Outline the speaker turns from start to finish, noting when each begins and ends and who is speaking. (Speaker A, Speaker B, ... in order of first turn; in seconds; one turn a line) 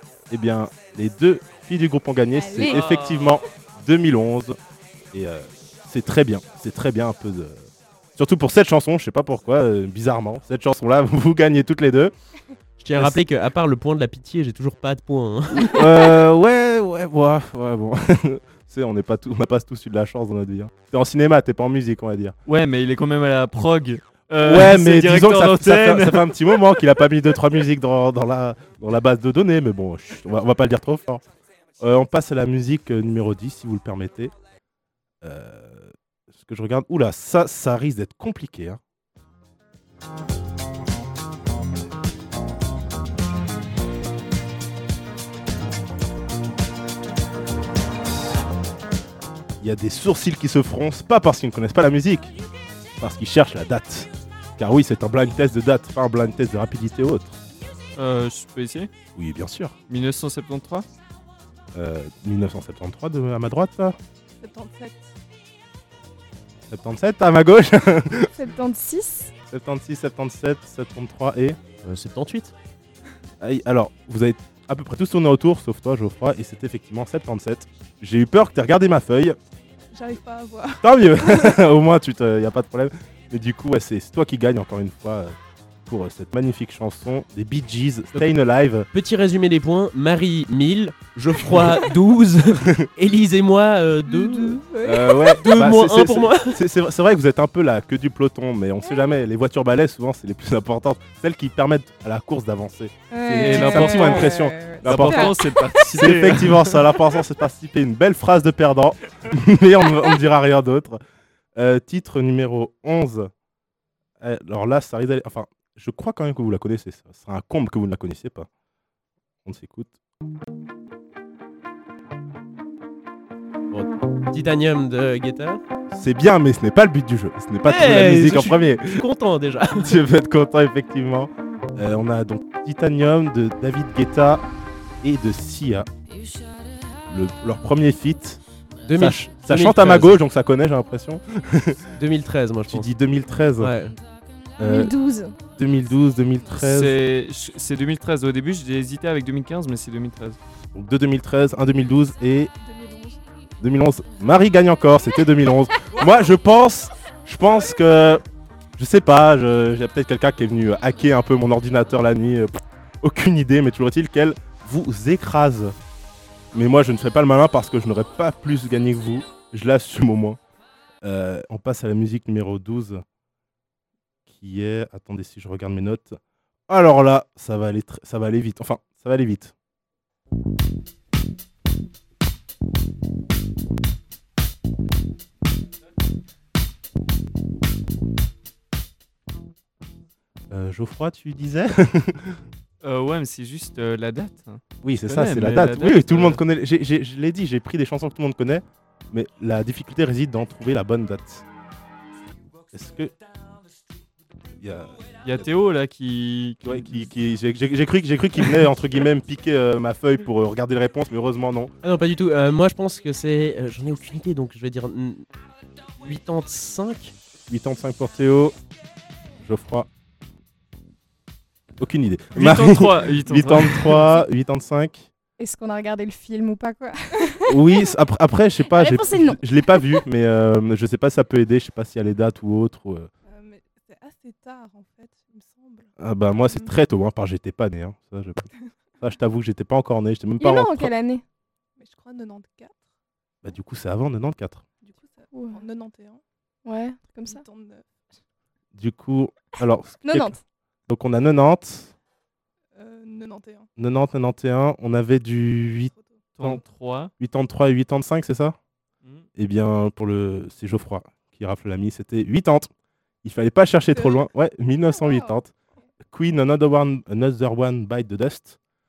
Speaker A: 0.3-4.6
Speaker B: 2.3-2.8
Speaker C: 2.6-3.4
Speaker A: 5.1-12.1
Speaker D: 12.8-15.9
Speaker A: 12.9-13.2
Speaker A: 15.6-22.4
Speaker C: 22.5-26.6
Speaker A: 24.4-31.2
Speaker A: 31.8-34.3
Speaker A: 35.2-38.8
Speaker A: 49.6-52.4
Speaker A: 53.0-57.4
Speaker C: 58.0-58.9
Speaker A: 59.2-59.8
Speaker C: 59.9-60.9
Speaker A: 61.7-64.0
Speaker E: 64.4-65.1
Speaker A: 66.7-68.3
Speaker B: 68.3-69.3
Speaker A: 69.5-71.6
Speaker D: 71.8-72.5
Speaker A: 73.4-79.4
Speaker E: 79.9-81.5
Speaker A: 80.8-88.9
Speaker D: 88.9-96.6
Speaker A: 92.6-92.9
Speaker B: 94.1-95.4
Speaker A: 94.8-111.0
Speaker B: 103.1-105.7
Speaker C: 103.4-106.8
Speaker A: 111.5-113.3
Speaker A: 114.2-118.5
Speaker A: 119.5-120.0
Speaker D: 123.7-125.6
Speaker A: 125.9-129.0
Speaker D: 127.7-129.9
Speaker A: 129.8-134.4
Speaker A: 135.0-135.9
Speaker A: 137.1-141.9
Speaker D: 138.8-140.2
Speaker D: 142.0-142.9
Speaker A: 142.7-143.7
Speaker D: 143.6-143.9
Speaker A: 144.6-144.9
Speaker B: 144.6-145.4
Speaker A: 145.6-147.0
Speaker C: 146.5-150.4
Speaker A: 150.7-152.5
Speaker E: 152.6-153.4
Speaker A: 153.6-158.2
Speaker A: 158.8-165.8
Speaker A: 166.5-170.4
Speaker A: 171.0-173.0
Speaker A: 174.3-176.2
Speaker A: 176.7-179.5
Speaker A: 190.5-192.4
Speaker C: 192.8-196.4
Speaker A: 194.8-201.4
Speaker A: 202.7-203.1
Speaker A: 204.6-205.5
Speaker C: 205.2-207.0
Speaker A: 206.6-211.7
Speaker D: 211.8-215.3
Speaker D: 216.0-217.1
Speaker A: 217.5-218.6
Speaker A: 219.4-219.9
Speaker A: 221.8-225.1
Speaker C: 222.3-224.1
Speaker B: 225.4-227.8
Speaker A: 227.5-233.1
Speaker B: 228.7-230.0
Speaker E: 233.3-235.9
Speaker A: 236.0-238.5
Speaker A: 239.0-240.9
Speaker B: 240.4-241.2
Speaker E: 241.8-242.9
Speaker A: 243.4-244.7
Speaker E: 244.8-246.2
Speaker B: 245.3-245.6
Speaker B: 246.7-247.5
Speaker E: 247.2-248.2
Speaker A: 248.7-250.4
Speaker B: 250.0-250.4
Speaker A: 250.9-251.9
Speaker E: 252.8-253.7
Speaker A: 253.8-256.6
Speaker E: 255.8-256.3
Speaker C: 256.4-257.1
Speaker A: 257.2-258.6
Speaker A: 259.4-262.7
Speaker A: 263.2-265.5
Speaker E: 263.9-264.3
Speaker A: 266.1-268.6